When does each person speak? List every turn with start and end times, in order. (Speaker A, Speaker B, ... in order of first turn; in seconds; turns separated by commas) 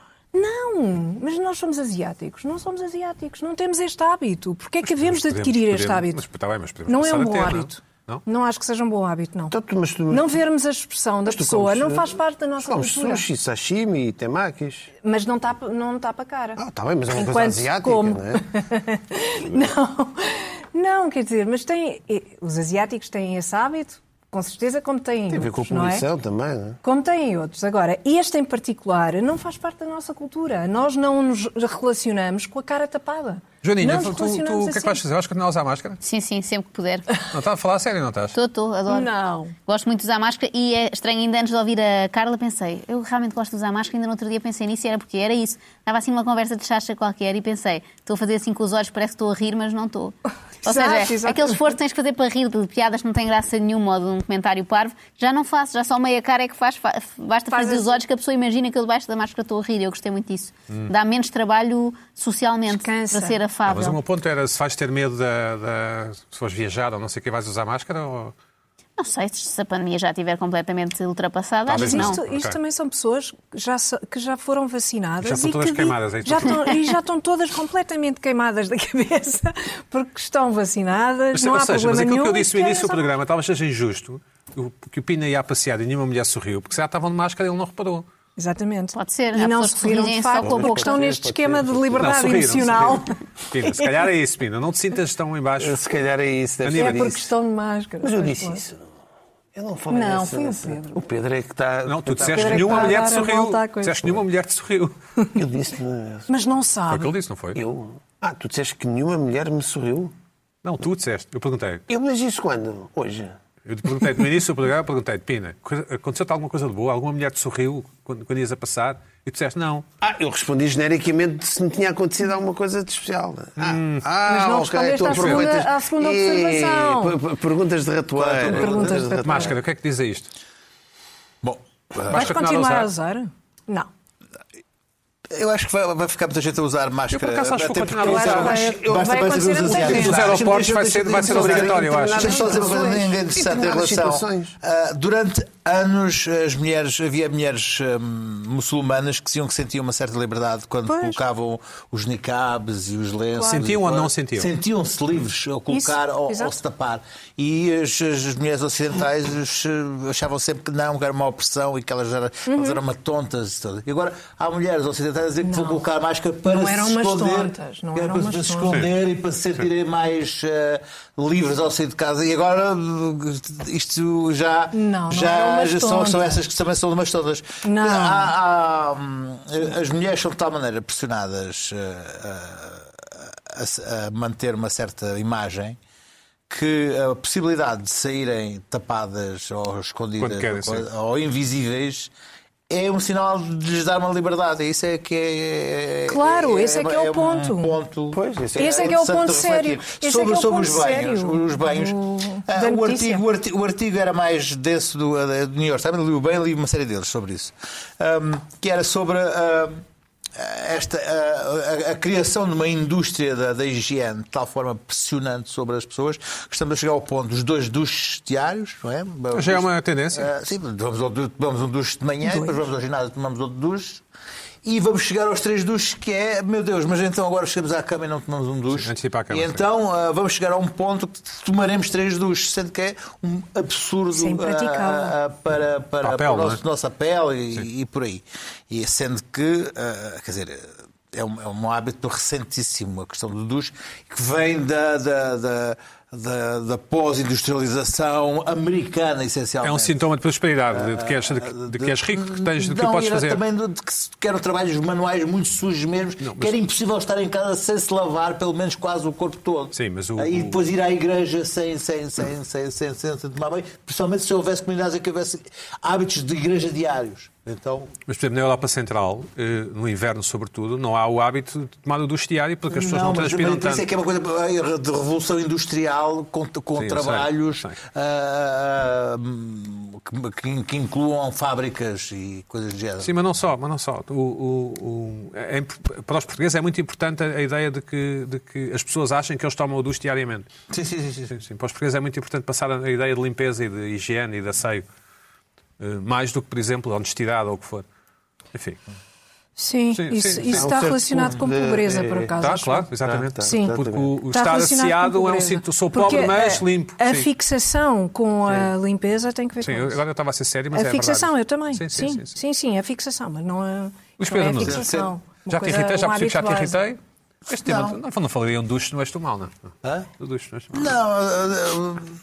Speaker A: 0.3-6.2, Speaker B: 4.9-8.2, Speaker A: 6.9-9.6, Speaker C: 9.5-10.3, Speaker A: 10.1-13.2, Speaker C: 11.3-14.9, Speaker A: 15.0-26.1, Speaker C: 16.6-18.5, Speaker C: 25.3-26.8, Speaker A: 26.8-35.0, Speaker B: 33.6-36.0, Speaker D: 36.0-37.2, Speaker B: 37.3-38.4, Speaker D: 38.3-39.1, Speaker A: 38.9-39.5, Speaker D: 39.7-50.1, Speaker A: 50.6-51.7, Speaker D: 50.6-64.0, Speaker A: 57.5-58.0, Speaker A: 62.7-63.4, Speaker B: 63.7-68.3, Speaker D: 69.0-72.2, Speaker B: 71.7-72.6, Speaker A: 71.7-83.1, Speaker B: 75.2-76.7, Speaker B: 81.3-88.1, Speaker A: 88.4-94.0, Speaker D: 89.0-91.1, Speaker C: 90.4-92.2, Speaker B: 92.0-95.8, Speaker C: 95.6-97.3, Speaker B: 96.6-97.1, Speaker A: 96.7-98.6, Speaker C: 98.0-98.8, Speaker C: 99.5-103.0, Speaker A: 99.9-101.0, Speaker B: 101.9-105.0, Speaker A: 102.2-104.2, Speaker C: 105.3-106.3, Speaker A: 106.3-107.1, Speaker B: 106.9-107.6, Speaker C: 107.5-110.1, Speaker B: 110.6-111.8, Speaker C: 111.9-113.4, Speaker B: 113.7-119.9, Speaker C: 120.0-129.6, Speaker B: 123.6-124.1, Speaker A: 124.3-127.2, Speaker B: 125.1-125.5, Speaker E: 128.2-129.2, Speaker A: 128.4-129.6, Speaker B: 129.2-130.3, Speaker E: 131.4-132.4, Speaker B: 132.1-132.9, Speaker A: 132.1-133.9, Speaker E: 135.3-185.8, Speaker B: 137.1-138.6, Speaker A: 138.0-140.4, Speaker C: 138.1-144.6, Speaker B: 139.9-142.3, Speaker A: 142.1-143.1, Speaker A: 150.9-151.2, Speaker A: 153.4-153.7, Speaker B: 153.5-154.5, Speaker A: 155.7-156.6, Speaker A: 162.5-162.8, Speaker A: 165.4-165.8, Speaker A: 166.4-168.8, Speaker A: 174.7-176.4, Speaker A: 177.6-178.3, Speaker E: 186.5-192.1, Speaker B: 190.2-190.9, Speaker E: 192.7-209.8, Speaker A: 196.1-197.7, Speaker C: 198.1-199.4, Speaker A: 198.6-203.2, Speaker E: 210.4-224.0, Speaker B: 219.3-220.3, Speaker A: 222.2-222.6, Speaker E: 224.6-250.0, Speaker B: 228.7-229.6, Speaker A: 234.1-235.2, Speaker B: 236.0-236.6, Speaker B: 249.6-253.4, Speaker E: 250.7-267.9, Speaker B: 256.2-256.6, Speaker B: 259.7-260.6, Speaker B: 268.1-273.9, Speaker E: 272.7-283.2, Speaker B: 276.8-277.8, Speaker B: 283.0-290.5, Speaker E: 290.7-291.4, Speaker B: 291.3-294.9, Speaker B: 295.8-297.9, Speaker B: 298.5-298.8, Speaker A: 299.6-302.9, Speaker B: 299.9-300.7, Speaker C: 300.5-302.4, Speaker B: 302.4-307.3, Speaker C: 303.0-304.1, Speaker A: 303.4-303.8, Speaker A: 304.3-310.0, Speaker B: 309.6-312.4, Speaker A: 310.7-316.8, Speaker B: 314.2-314.9, Speaker E: 314.6-315.1, Speaker B: 315.5-319.5, Speaker E: 317.6-318.0, Speaker B: 320.2-320.9, Speaker E: 320.7-322.1